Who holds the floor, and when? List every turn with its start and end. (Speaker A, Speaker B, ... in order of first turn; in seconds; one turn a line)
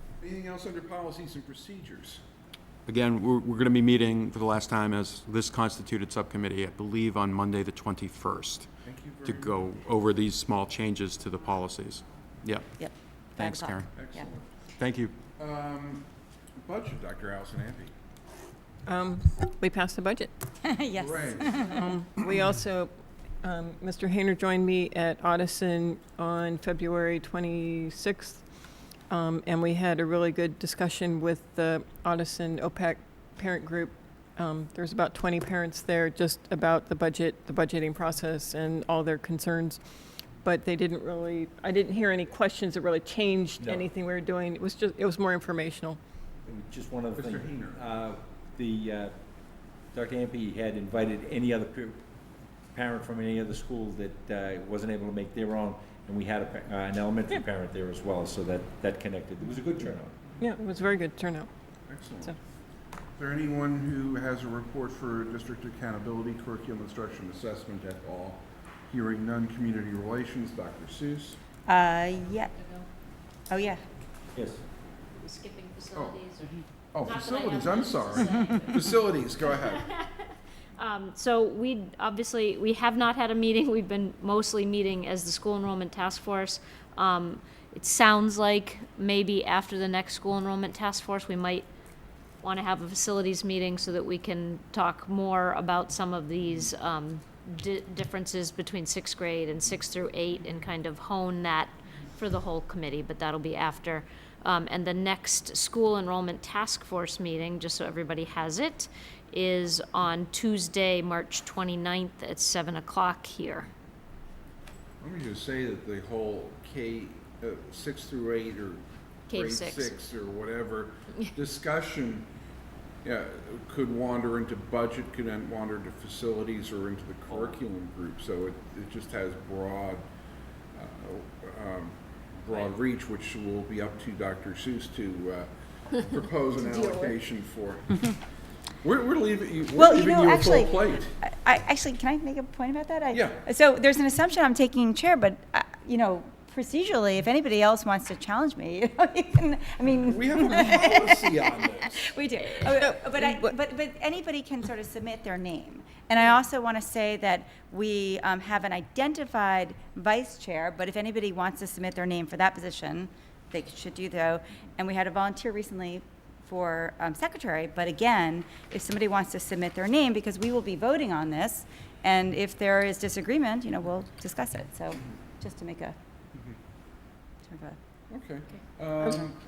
Speaker A: 0.2-2.2
Speaker B: 2.9-12.8
Speaker A: 8.8-9.7
Speaker C: 12.8-14.2
Speaker B: 13.3-14.0
Speaker A: 14.0-14.5
Speaker B: 14.8-15.2
Speaker A: 15.4-16.1
Speaker A: 16.6-17.9
Speaker D: 18.9-20.3
Speaker C: 20.6-21.9
Speaker A: 21.0-21.6
Speaker D: 21.6-28.4
Speaker D: 29.1-39.8
Speaker D: 40.4-46.0
Speaker E: 43.6-43.9
Speaker E: 46.5-49.1
Speaker A: 47.3-47.8
Speaker E: 49.9-52.0
Speaker E: 52.7-60.1
Speaker D: 60.4-61.5
Speaker A: 61.9-62.4
Speaker A: 63.2-71.4
Speaker C: 71.7-72.5
Speaker F: 72.5-72.8
Speaker C: 73.5-73.8
Speaker E: 74.3-74.6
Speaker F: 75.2-91.7
Speaker A: 75.9-76.2
Speaker A: 76.9-79.9
Speaker F: 92.4-113.7
Speaker A: 115.0-122.3
Speaker F: 119.3-120.0
Speaker A: 123.0-130.1
Speaker A: 130.7-135.5
Speaker A: 136.1-138.0
Speaker F: 136.5-137.2
Speaker A: 138.8-141.1
Speaker C: 139.8-176.0
Speaker A: 143.1-143.4
Speaker A: 150.1-152.1
Speaker D: 152.8-153.5
Speaker C: 177.5-177.8
Speaker A: 178.1-179.3